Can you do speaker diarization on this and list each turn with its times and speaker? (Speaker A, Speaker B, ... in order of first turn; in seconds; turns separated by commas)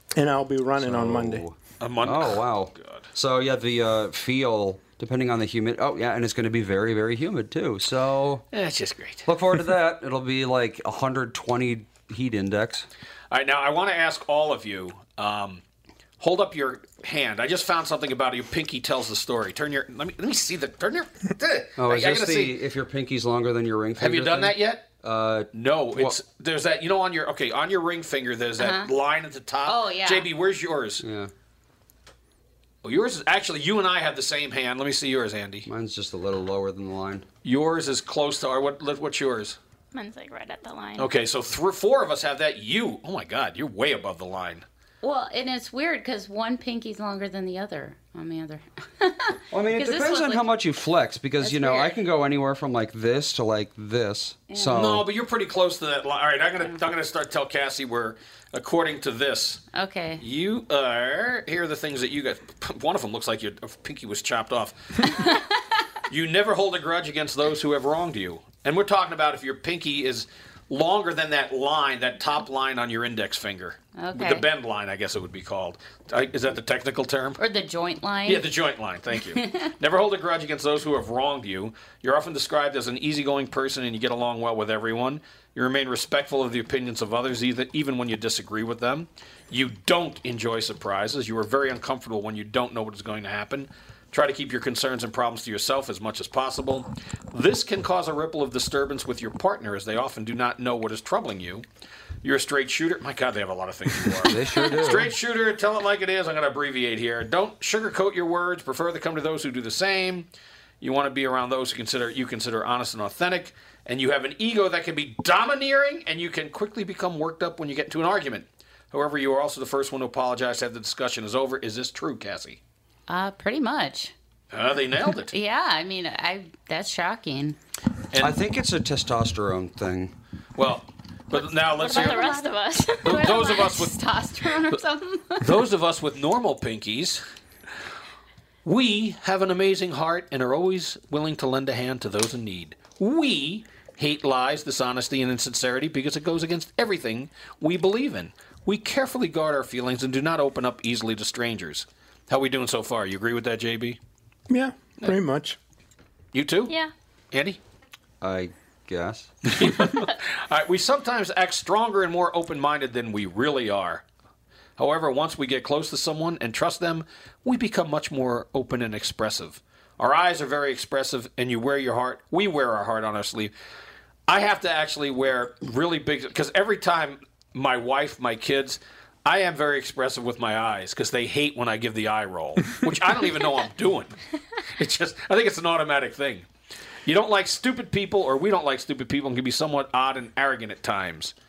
Speaker A: 0.1-1.4, Speaker B: 0.8-8.4, Speaker C: 1.8-3.0, Speaker C: 8.5-9.3, Speaker B: 9.2-12.8, Speaker C: 13.3-15.6, Speaker C: 16.2-22.6, Speaker B: 21.8-26.2, Speaker C: 24.0-24.9, Speaker C: 25.5-31.0, Speaker D: 28.6-28.9, Speaker D: 29.6-30.3, Speaker B: 31.0-31.3, Speaker C: 32.8-35.7, Speaker B: 35.6-37.2, Speaker C: 37.4-39.6, Speaker E: 39.9-41.1, Speaker C: 41.0-44.6, Speaker D: 45.0-50.5, Speaker B: 49.5-55.1, Speaker D: 51.4-52.0, Speaker D: 54.5-54.8, Speaker C: 54.6-59.6, Speaker D: 59.7-60.2, Speaker C: 60.2-65.2, Speaker C: 66.1-77.4, Speaker D: 74.0-74.4, Speaker D: 77.4-78.5, Speaker C: 78.2-101.6, Speaker D: 79.2-79.7, Speaker C: 102.2-110.3, Speaker B: 104.2-105.1, Speaker C: 110.8-122.6, Speaker D: 123.1-124.1, Speaker C: 124.5-125.3, Speaker D: 125.3-127.6, Speaker B: 128.2-130.1, Speaker C: 130.6-132.3, Speaker E: 131.4-133.7, Speaker D: 131.7-135.5, Speaker C: 133.0-133.9, Speaker C: 135.4-137.2, Speaker C: 138.6-154.0, Speaker A: 154.5-155.6, Speaker C: 156.3-156.7, Speaker E: 156.7-156.9, Speaker C: 157.3-157.6, Speaker B: 158.2-159.4, Speaker C: 159.5-164.0, Speaker C: 164.8-173.5, Speaker C: 174.3-184.2, Speaker C: 184.8-186.5, Speaker C: 187.1-191.3